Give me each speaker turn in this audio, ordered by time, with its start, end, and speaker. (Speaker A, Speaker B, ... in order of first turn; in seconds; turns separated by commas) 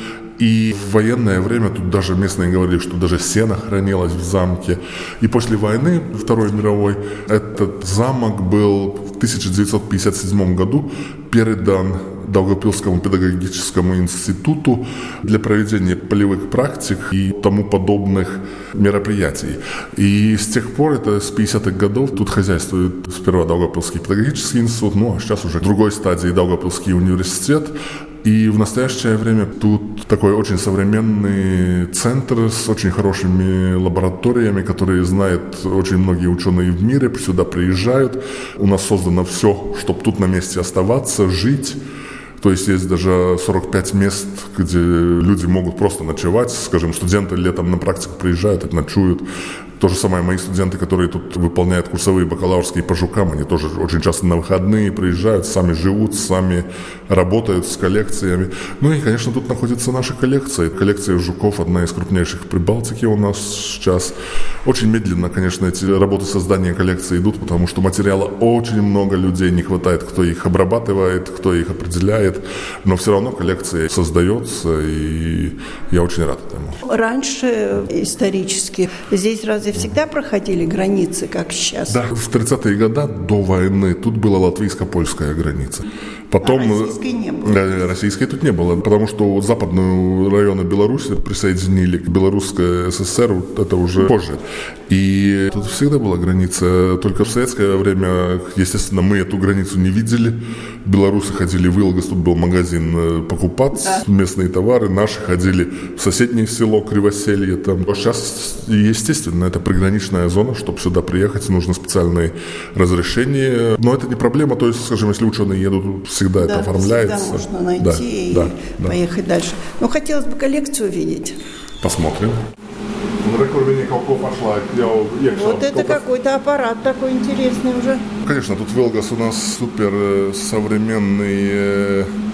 Speaker A: 0.4-41.8, Speaker A: 42.4-49.2, Speaker A: 49.8-76.8, Speaker B: 76.8-82.0, Speaker A: 81.9-119.0, Speaker B: 86.4-87.8, Speaker B: 116.4-121.3, Speaker A: 121.8-122.4, Speaker A: 123.2-126.0, Speaker B: 125.3-128.0, Speaker A: 128.2-132.1